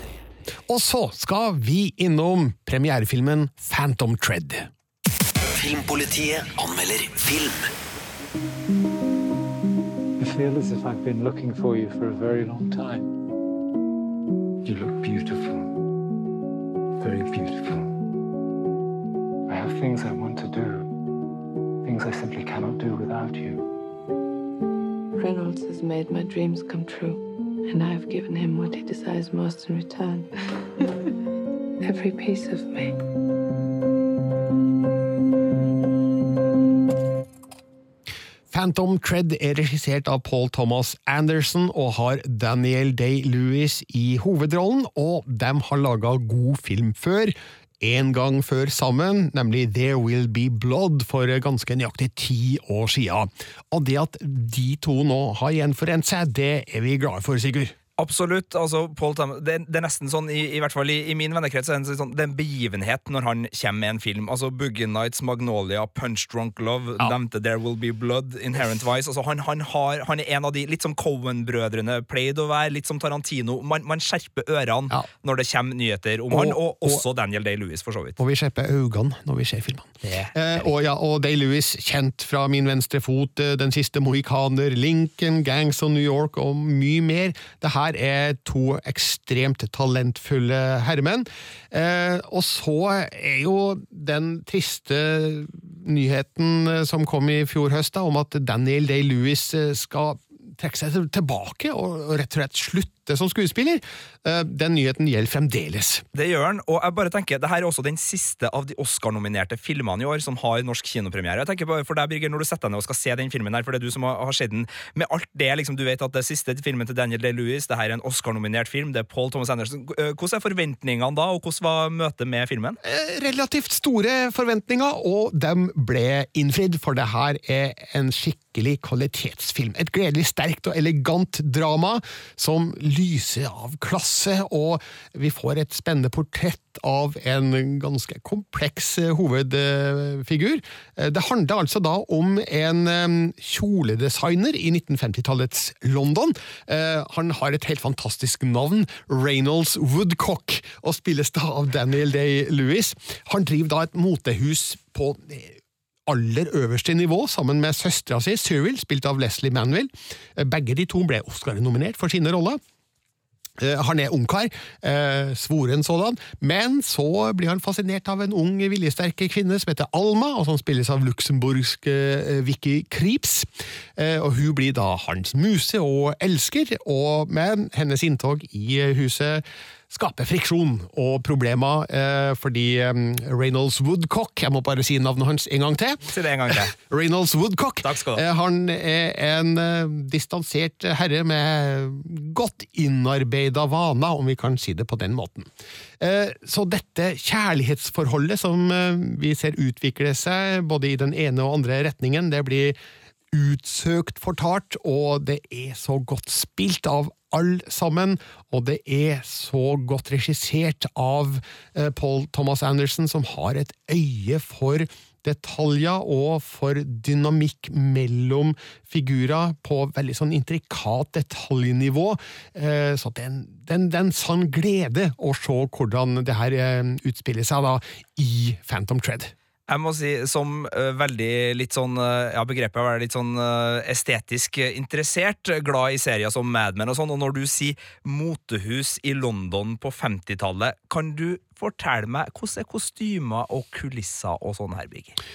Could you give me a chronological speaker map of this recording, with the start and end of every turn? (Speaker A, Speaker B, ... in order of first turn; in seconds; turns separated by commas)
Speaker A: 0.7-4.7, Speaker B: 5.5-7.7, Speaker C: 10.2-13.1, Speaker C: 14.6-15.7, Speaker C: 17.0-17.9, Speaker C: 19.5-20.9, Speaker C: 21.8-23.6, Speaker D: 25.2-30.9, Speaker D: 31.8-33.0, Speaker A: 38.5-57.7, Speaker E: 58.0-78.2, Speaker A: 76.3-77.0, Speaker A: 78.2-106.0, Speaker E: 80.0-80.3, Speaker E: 106.1-122.8, Speaker A: 122.8-155.6, Speaker A: 156.1-162.6, Speaker A: 163.6-202.8, Speaker E: 186.1-186.7, Speaker E: 187.8-188.2, Speaker A: 203.3-229.3, Speaker E: 229.7-245.2